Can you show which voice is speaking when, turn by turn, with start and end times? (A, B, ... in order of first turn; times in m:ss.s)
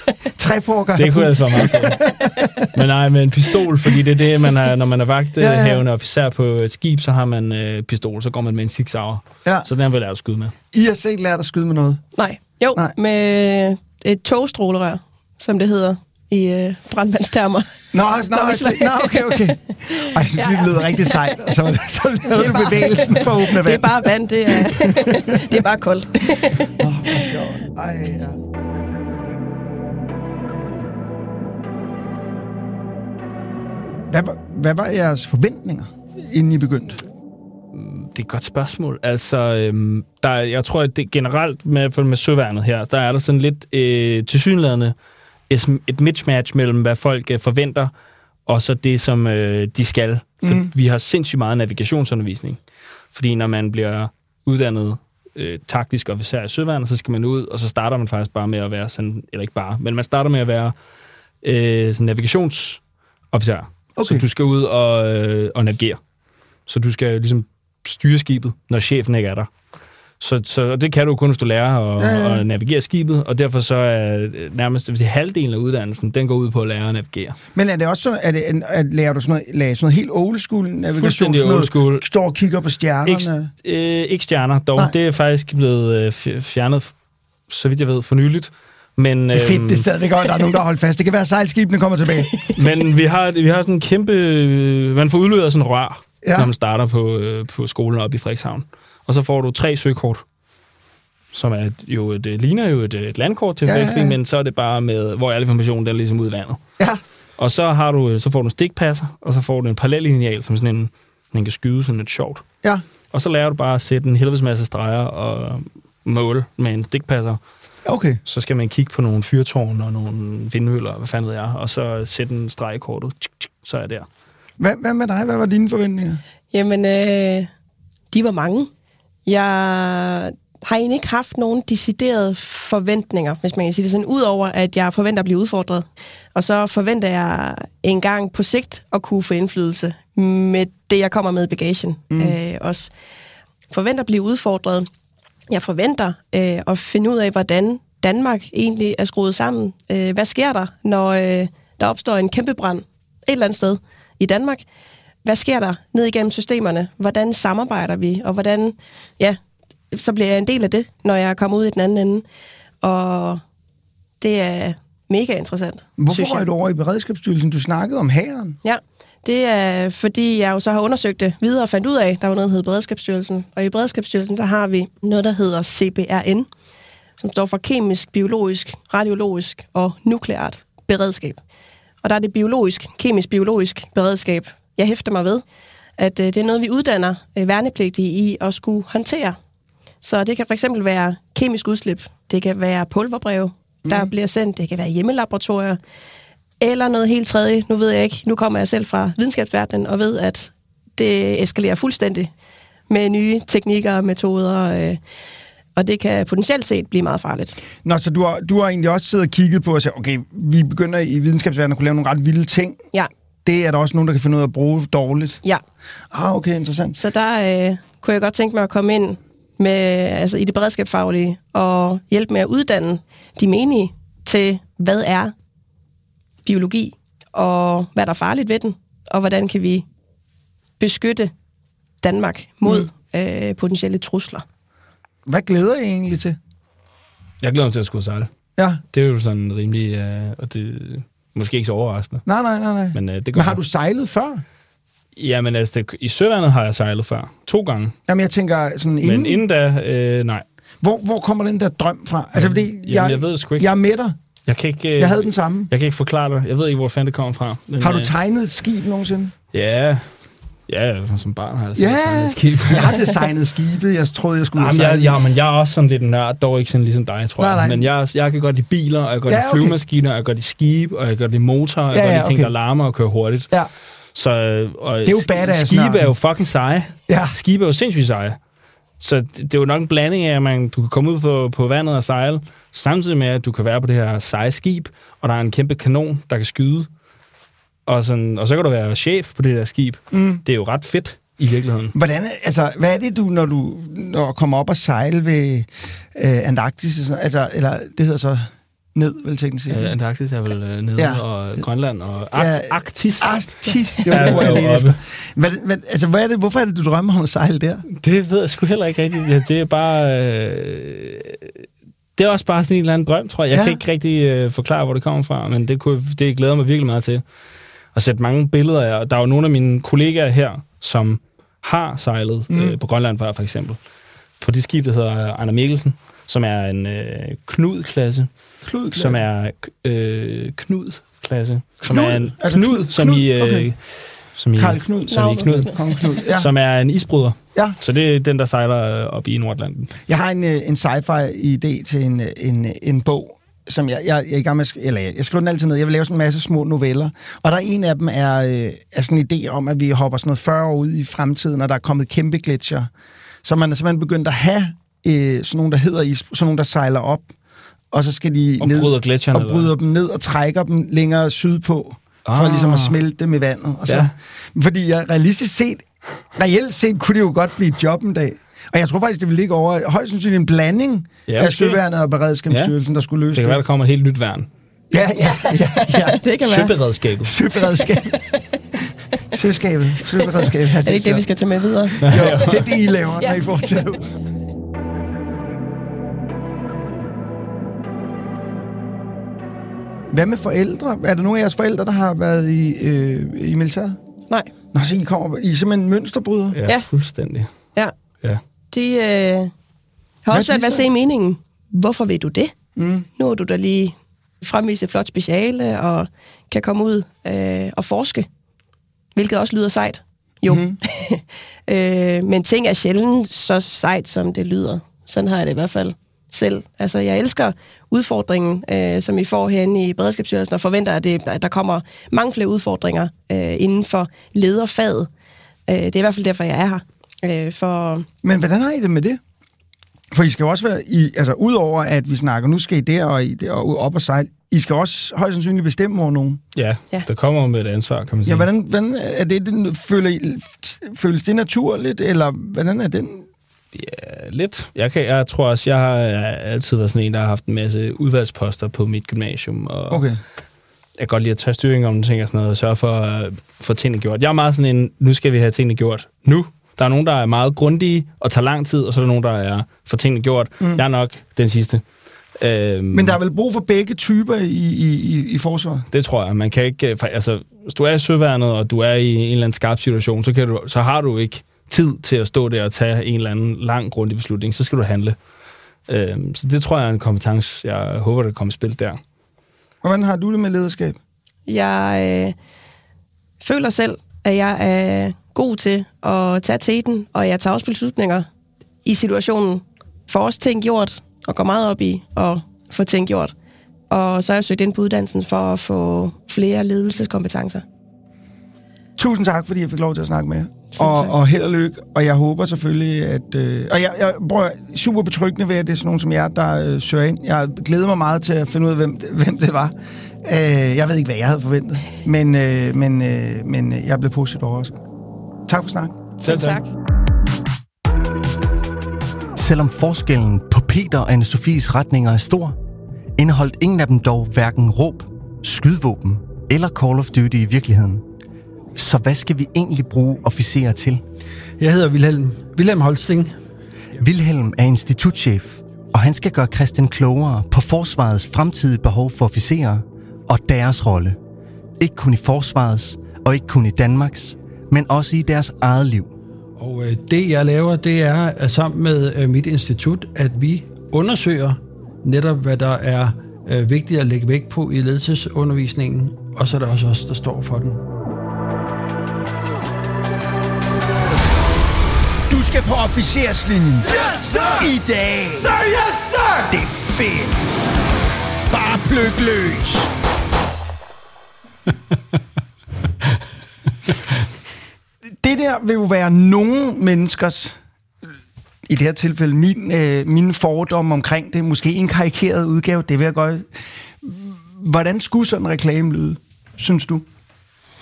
0:00.4-0:02.7 A
0:01.0-0:02.0 B
0:02.7-0:10.5 B
0:05.4-0:05.8 A
0:10.7-0:12.0 A
0:12.2-0:17.7 C
0:17.9-0:25.6 A
0:18.3-0:21.4 C
0:22.3-0:27.4 C
0:26.8-0:28.4 A
0:34.1-0:37.0 A
0:37.7-0:45.0 B
0:45.5-0:47.9 B
0:48.5-0:52.6 B
0:50.4-0:50.7 A
0:53.1-1:00.8 B
1:01.4-1:02.8 B
1:03.3-1:06.0 B
1:04.0-1:04.2 A
1:06.7-1:09.5 B
1:10.2-1:17.4 B
1:12.0-1:12.4 A
1:17.6-1:23.5 A
1:21.0-1:22.0 B
1:23.1-1:26.9 B
1:27.5-1:29.8 B
1:29.3-1:32.5 A
1:32.6-1:40.2 B
1:36.2-1:36.5 A
1:41.3-1:46.6 B
1:43.7-1:44.2 A
1:47.4-1:52.4 B
1:53.1-1:57.4 B
1:57.9-1:58.2 A
1:58.2-2:04.1 B
2:04.6-2:06.2 A
2:06.5-2:07.5 C
2:08.1-2:08.7 C
2:09.2-2:22.9 C
2:22.1-2:22.4 A
2:23.7-2:24.9 C
2:25.5-2:34.6 C
2:35.2-2:39.4 C
2:39.9-2:42.2 C
2:42.8-2:43.4 C
2:44.2-2:46.5 C
2:46.0-2:48.6 A
2:48.6-2:56.5 C
2:57.2-3:01.4 C
3:02.0-3:05.4 C
3:06.0-3:09.4 C
3:10.0-3:15.8 C
3:13.9-3:14.1 A
3:16.6-3:22.3 C
3:22.9-3:25.0 C
3:25.8-3:27.6 C
3:27.8-3:32.8 A
3:33.4-3:35.4 A
3:36.1-3:37.0 A
3:37.0-3:45.3 C
3:46.4-3:49.8 C
3:50.8-3:51.3 C
3:52.0-3:54.4 C
3:55.3-3:56.4 A
3:57.4-3:58.3 B
3:58.6-3:58.8 A
3:58.9-4:02.2 B
4:02.3-4:04.4 A
4:02.9-4:03.6 B
4:05.2-4:08.0 B
4:08.1-4:09.4 A
4:09.0-4:10.4 B
4:10.8-4:14.2 A
4:12.4-4:13.7 B
4:14.5-4:18.1 B
4:15.0-4:15.7 A
4:17.8-4:19.3 A
4:19.5-4:23.0 B
4:21.8-4:25.2 A
4:24.6-4:33.5 B
4:27.4-4:27.9 A
4:29.3-4:29.8 A
4:31.9-4:32.5 A
4:34.1-4:38.4 B
4:35.1-4:36.1 A
4:37.1-4:37.4 A
4:39.0-4:46.9 B
4:47.9-4:51.9 B
4:50.1-4:50.4 A
4:52.0-4:59.9 A
4:59.7-5:05.0 B
5:01.0-5:01.6 A
5:02.3-5:07.8 A
5:08.0-5:17.2 B
5:13.5-5:13.8 A
5:17.9-5:23.8 B
5:22.5-5:22.8 A
5:24.4-5:28.3 B
5:28.7-5:29.2 A
5:28.9-5:33.8 B
5:31.8-5:33.7 A
5:34.4-5:35.7 B
5:34.6-5:36.5 A
5:35.1-5:35.6 C
5:36.3-5:39.9 B
5:40.1-5:52.9 A
5:53.4-5:57.3 A
5:57.9-6:13.6 A
5:58.6-5:59.7 B
6:02.3-6:03.0 B
6:03.9-6:04.1 B
6:11.3-6:11.8 B
6:13.3-6:14.5 B
6:14.9-6:16.2 A
6:15.2-6:16.8 C
6:16.4-6:17.3 B
6:17.2-6:18.2 A
6:17.8-6:18.4 C
6:19.3-6:21.3 A
6:20.2-6:22.5 C
6:22.0-6:24.1 A
6:22.1-6:22.6 B
6:23.2-6:23.8 C
6:30.1-6:34.0 A
6:34.7-6:36.6 A
6:36.5-6:37.5 B
6:38.7-6:39.5 C
6:40.2-6:42.6 C
6:40.3-6:40.9 A
6:42.8-6:43.1 A
6:43.2-6:48.3 C
6:49.2-7:05.1 C
6:50.5-6:50.8 A
7:05.7-7:08.1 C
7:08.2-7:09.2 A
7:10.1-7:16.4 A
7:16.6-7:18.5 B
7:18.3-7:23.3 A
7:23.7-7:30.0 B
7:29.9-7:30.2 A
7:31.0-7:41.8 B
7:42.4-7:43.2 B
7:42.9-7:45.9 A
7:45.9-7:55.2 B
7:55.9-7:59.0 B
7:59.8-8:01.0 A
8:01.5-8:02.4 C
8:03.4-8:08.3 C
8:08.8-8:13.3 C
8:13.9-8:17.6 C
8:19.0-8:29.7 A
8:20.8-8:21.1 C
8:30.2-8:34.8 A
8:35.5-8:36.0 A
8:36.2-8:36.6 B
8:36.2-8:36.7 C
8:39.4-8:42.6 D
8:43.2-8:48.0 D
8:48.8-8:51.0 D
8:51.6-8:53.3 E
8:54.0-9:01.2 D
9:01.8-9:06.1 D
9:06.6-9:17.8 E
9:22.3-9:23.9 A
9:24.5-9:25.7 A
9:26.5-9:27.4 A
9:28.5-9:29.9 A
9:35.2-9:37.6 A
9:38.7-9:47.0 A